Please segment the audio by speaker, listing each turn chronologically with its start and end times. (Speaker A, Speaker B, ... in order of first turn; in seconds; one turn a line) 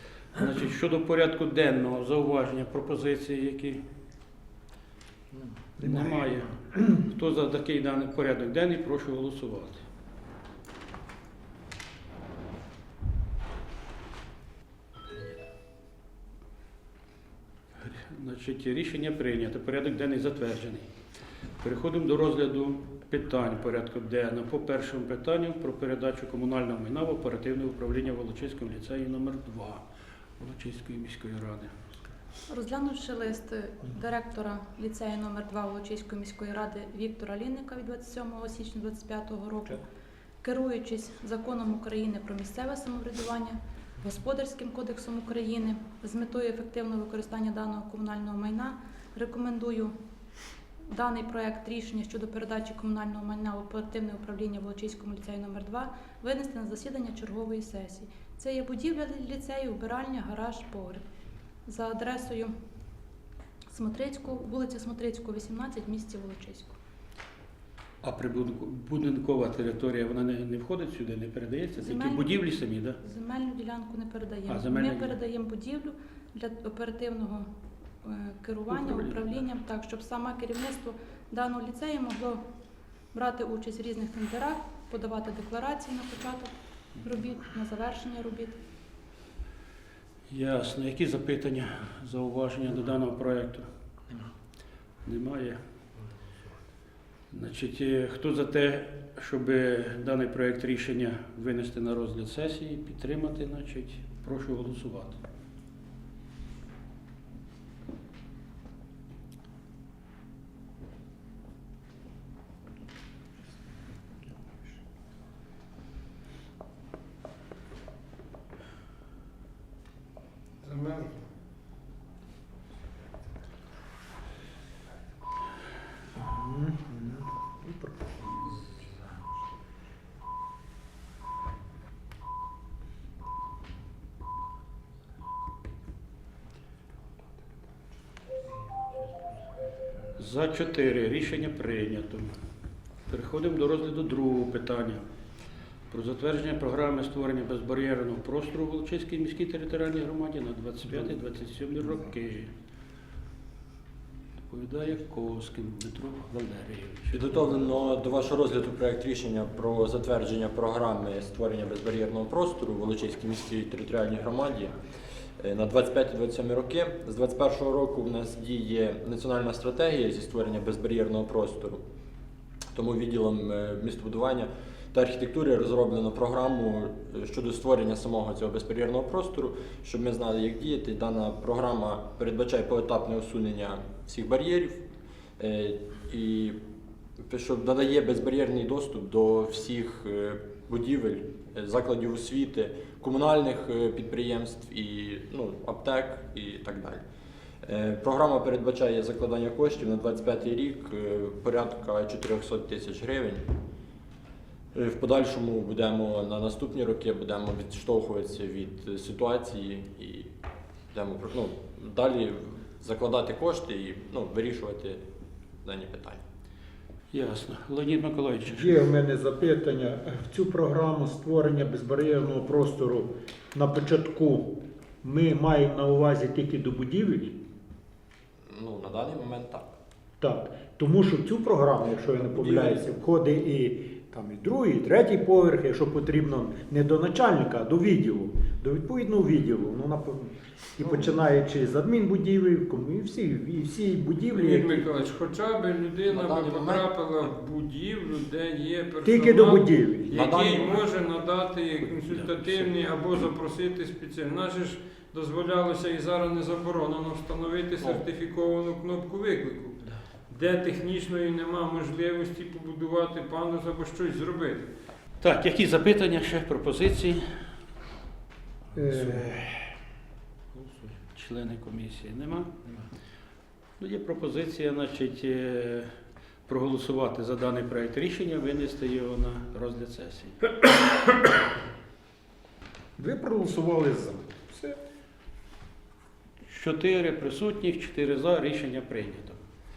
Speaker A: 0.3-3.8
Speaker A: 5.8-9.8
Speaker A: 17.8-20.9
Speaker A: 21.6-29.8
Speaker A: 30.4-31.7
Speaker B: 32.5-39.8
Speaker B: 40.4-49.9
Speaker B: 50.9-61.0
Speaker B: 61.6-62.5
Speaker B: 63.7-66.7
Speaker A: 68.0-73.0
Speaker B: 71.8-77.5
Speaker A: 74.5-75.2
Speaker B: 78.0-82.4
Speaker A: 78.7-79.4
Speaker B: 83.1-88.6
Speaker A: 90.3-93.7
Speaker A: 95.0-95.6
Speaker A: 97.3-105.2
Speaker C: 120.6-121.2
Speaker D: 126.1-128.3
Speaker A: 140.1-142.3
Speaker A: 143.1-145.0
Speaker A: 145.9-152.5
Speaker A: 154.5-157.6
Speaker E: 157.1-164.8
Speaker E: 165.4-171.8
Speaker E: 172.7-184.8
Speaker E: 185.4-186.6
Speaker E: 187.2-197.0
Speaker E: 197.6-203.4
Speaker E: 204.7-210.3
Speaker E: 210.9-215.0
Speaker E: 215.6-216.2
Speaker A: 217.1-218.8
Speaker D: 218.5-227.4
Speaker E: 228.5-229.7
Speaker D: 230.2-244.9
Speaker E: 232.3-232.8
Speaker E: 240.8-241.1
Speaker C: 244.3-264.7
Speaker E: 246.1-246.9
Speaker D: 249.0-250.2
Speaker E: 250.1-250.9
Speaker A: 252.2-252.6
Speaker A: 265.2-267.4
Speaker D: 268.7-269.4
Speaker A: 268.9-269.6
Speaker A: 270.6-272.7
Speaker A: 273.8-275.9
Speaker A: 276.5-280.5
Speaker D: 283.0-284.8
Speaker A: 286.5-289.4